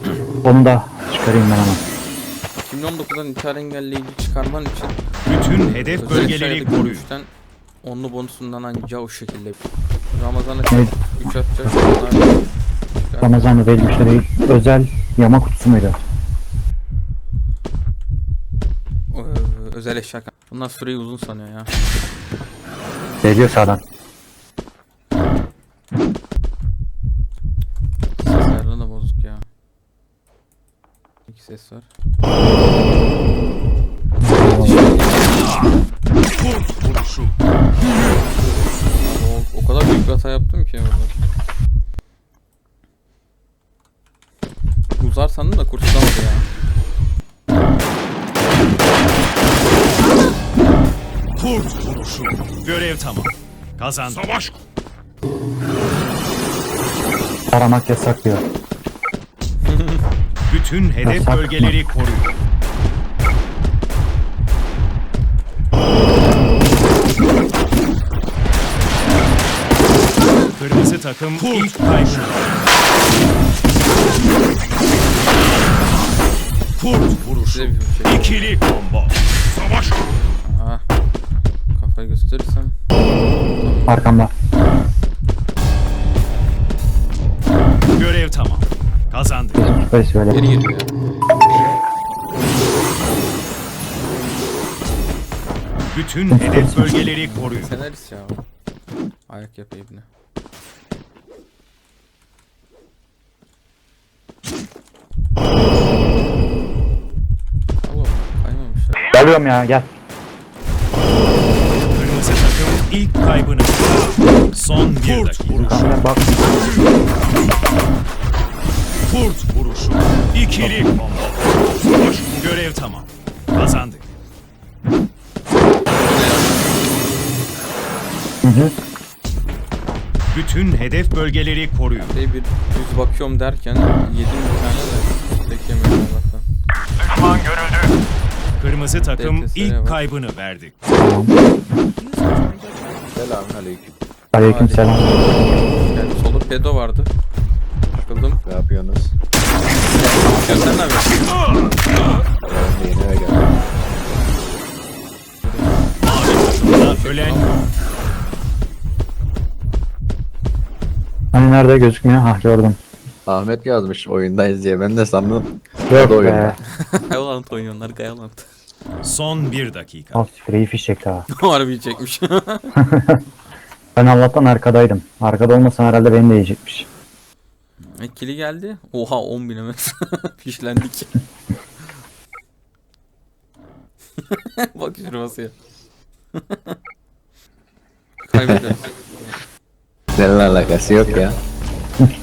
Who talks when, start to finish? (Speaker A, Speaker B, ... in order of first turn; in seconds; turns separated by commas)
Speaker A: 0.4-1.8, Speaker B: 2.6-7.3, Speaker C: 5.2-7.1, Speaker B: 7.8-9.6, Speaker B: 10.1-12.5, Speaker B: 13.1-13.6, Speaker A: 13.2-16.0, Speaker B: 19.1-21.7, Speaker A: 23.2-23.8, Speaker B: 28.2-29.4, Speaker B: 31.3-31.9, Speaker A: 34.2-35.0, Speaker B: 34.4-35.5, Speaker C: 36.4-37.3, Speaker B: 39.0-41.1, Speaker B: 45.0-46.5, Speaker C: 51.4-54.3, Speaker A: 57.5-58.4, Speaker B: 59.6-60.0, Speaker C: 60.5-62.3, Speaker A: 61.0-61.7, Speaker C: 70.5-72.6, Speaker C: 76.8-79.2, Speaker B: 77.3-78.5, Speaker B: 80.4-80.8, Speaker B: 81.7-82.8, Speaker B: 83.5-84.0, Speaker A: 83.9-84.3, Speaker C: 88.0-89.7, Speaker A: 89.6-90.4, Speaker B: 90.3-90.9, Speaker C: 95.9-97.7, Speaker A: 96.3-97.0, Speaker B: 97.2-98.4, Speaker B: 99.3-100.0, Speaker B: 107.8-109.1, Speaker A: 109.1-109.9, Speaker C: 111.9-115.9, Speaker A: 115.5-116.6, Speaker C: 119.0-121.6, Speaker A: 120.6-120.9, Speaker C: 122.3-124.1, Speaker B: 125.9-126.9, Speaker A: 128.4-128.7, Speaker C: 130.3-132.2, Speaker B: 131.9-136.4, Speaker C: 138.6-140.7, Speaker B: 138.9-140.0, Speaker A: 141.0-141.3, Speaker D: 143.1-143.9, Speaker A: 144.3-145.1, Speaker B: 144.4-147.1, Speaker B: 147.9-148.4, Speaker D: 148.4-149.1, Speaker B: 149.9-151.4, Speaker D: 152.4-153.5, Speaker B: 155.4-157.7, Speaker C: 156.0-157.6, Speaker A: 161.3-162.8, Speaker D: 163.2-166.6, Speaker A: 165.9-166.6, Speaker B: 166.8-168.5, Speaker C: 169.0-170.2, Speaker A: 170.1-171.2, Speaker B: 171.3-172.7, Speaker A: 172.8-173.2, Speaker A: 173.9-176.9, Speaker B: 178.0-181.2, Speaker B: 184.2-185.5, Speaker B: 186.3-186.8, Speaker B: 188.2-189.4, Speaker D: 188.3-188.7, Speaker D: 190.2-191.4, Speaker B: 190.4-191.2